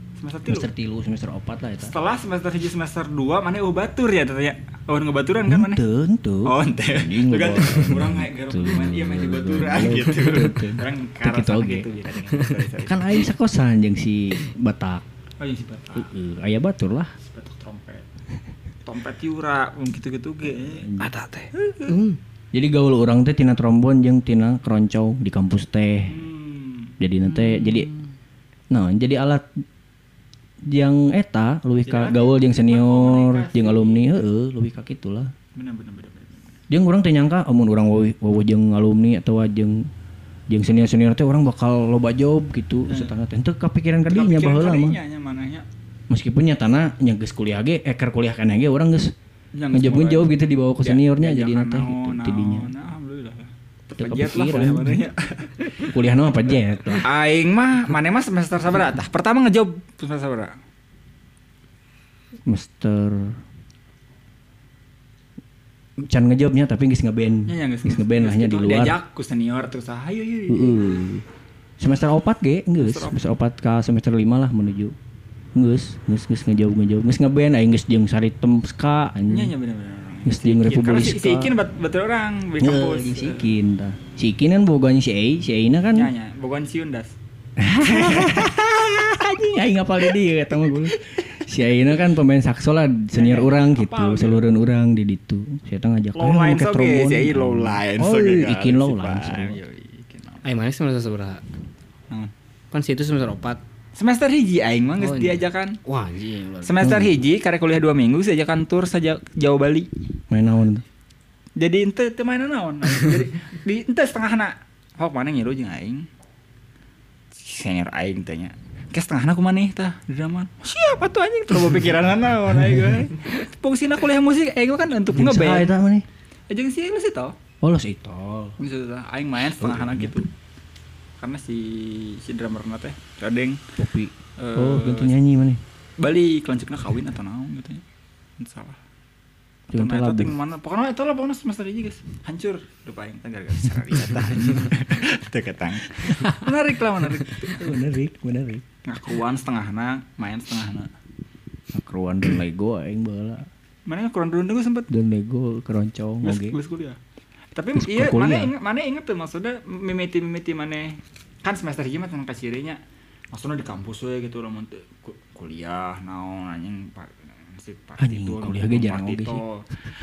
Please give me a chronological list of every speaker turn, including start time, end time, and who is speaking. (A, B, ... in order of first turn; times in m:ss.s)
0:00.2-0:00.7 A
0:00.5-0:01.9 B
0:01.8-0:05.8 A
0:05.5-0:11.9 B
0:06.4-0:13.3 A
0:12.8-0:15.0 B
0:15.4-0:16.0 A
0:15.9-0:17.1 B
0:17.2-0:18.0 A
0:18.8-0:20.9 A
0:20.6-0:21.1 B
0:21.0-0:22.2 C
0:21.6-0:21.9 A
0:22.5-0:26.2 B
0:26.1-0:26.9 A
0:27.0-0:27.9 B
0:28.7-0:29.5 B
0:30.6-0:35.3 B
0:31.9-0:34.2 A
0:35.6-0:36.6 A
0:36.7-0:39.9 B
0:40.5-0:45.0 B
0:42.9-0:43.1 A
0:44.1-0:45.7 A
0:46.1-0:49.2 B
0:49.5-0:55.6 A
0:49.7-0:52.7 B
0:54.0-0:55.0 B
0:55.8-0:57.1 B
0:57.0-1:00.6 A
1:02.5-1:03.4 B
1:06.0-1:09.0 B
1:07.5-1:11.0 A
1:10.5-1:11.2 B
1:11.8-1:15.0 B
1:12.8-1:13.2 A
1:15.5-1:19.6 B
1:19.3-1:23.4 A
1:20.2-1:21.6 B
1:22.6-1:26.1 B
1:26.0-1:27.1 A
1:27.6-1:39.6 B
1:27.8-1:28.5 A
1:33.1-1:34.6 A
1:36.2-1:40.4 A
1:40.4-1:41.4 C
1:42.7-1:43.6 C
1:44.0-1:45.8 A
1:45.0-1:47.0 C
1:46.6-1:49.9 A
1:46.8-1:47.2 B
1:50.3-1:50.8 B
1:51.6-1:56.1 A
1:57.3-2:05.7 A
2:05.1-2:06.1 B
2:06.5-2:07.4 A
2:07.6-2:08.6 B
2:08.6-2:10.3 A
2:09.6-2:10.2 B
2:11.2-2:13.6 A
2:13.8-2:15.6 B
2:14.4-2:15.1 A
2:16.0-2:17.8 A
2:18.4-2:18.8 A
2:19.7-2:20.4 B
2:19.8-2:27.6 A
2:27.5-2:28.6 B
2:28.8-2:30.9 A
2:31.7-2:33.5 B
2:33.9-2:34.9 A
2:34.9-2:36.6 B
2:36.2-2:37.0 A
2:37.5-2:42.8 A
2:37.8-2:38.5 B
2:43.3-2:49.7 A
2:48.0-2:49.4 B